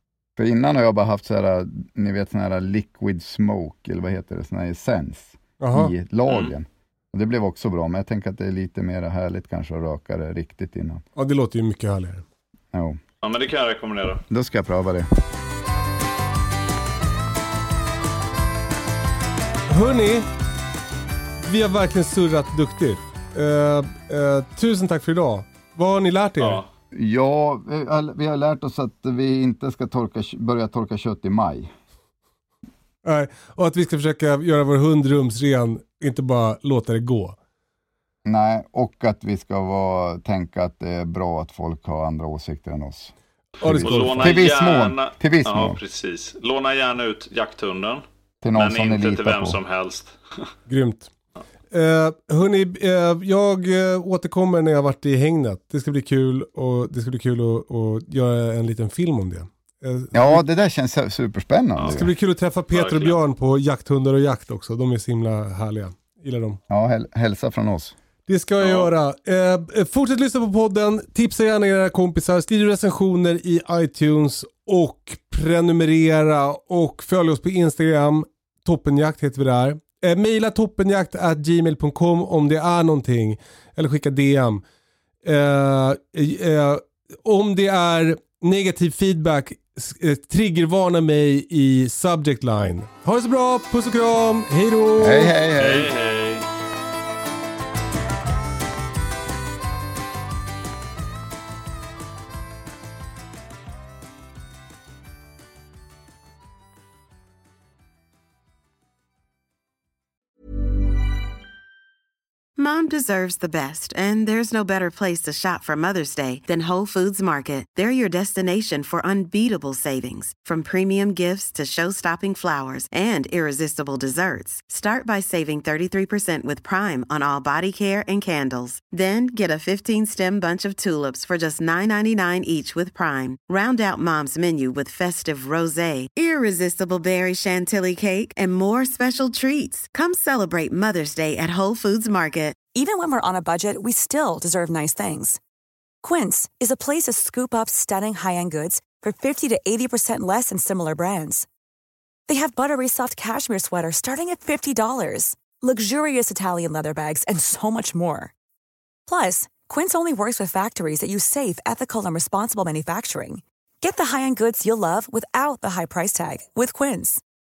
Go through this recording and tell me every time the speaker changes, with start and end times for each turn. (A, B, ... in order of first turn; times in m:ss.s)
0:00.4-0:11.0 A
0:05.6-0:05.9 B
0:06.3-0:06.5 C
0:11.2-0:12.2 B
0:12.7-0:13.0 A
0:13.2-0:14.2 C
0:14.3-0:15.1 A
0:19.7-0:20.3 B
0:21.4-0:26.6 B
0:26.4-0:26.7 C
0:26.9-0:31.7 A
0:33.0-0:37.4 B
0:38.2-0:45.8 A
0:43.6-0:44.4 B
0:43.7-0:48.0 C
0:48.4-0:49.6 A
0:48.6-0:50.5 C
0:50.7-0:51.1 B
0:51.7-1:00.4 B
1:00.1-1:02.1 A
1:01.8-1:02.0 C
1:01.9-1:06.6 B
1:02.7-1:03.2 C
1:06.7-1:08.0 A
1:08.3-1:24.6 B
1:08.6-1:08.9 C
1:25.2-1:35.3 B
1:35.0-1:35.9 A
1:35.6-1:36.5 C
1:52.6-2:22.6 D
2:22.7-2:25.4 E
2:26.0-2:31.5 E
2:32.3-2:38.3 E
2:39.1-2:47.2 E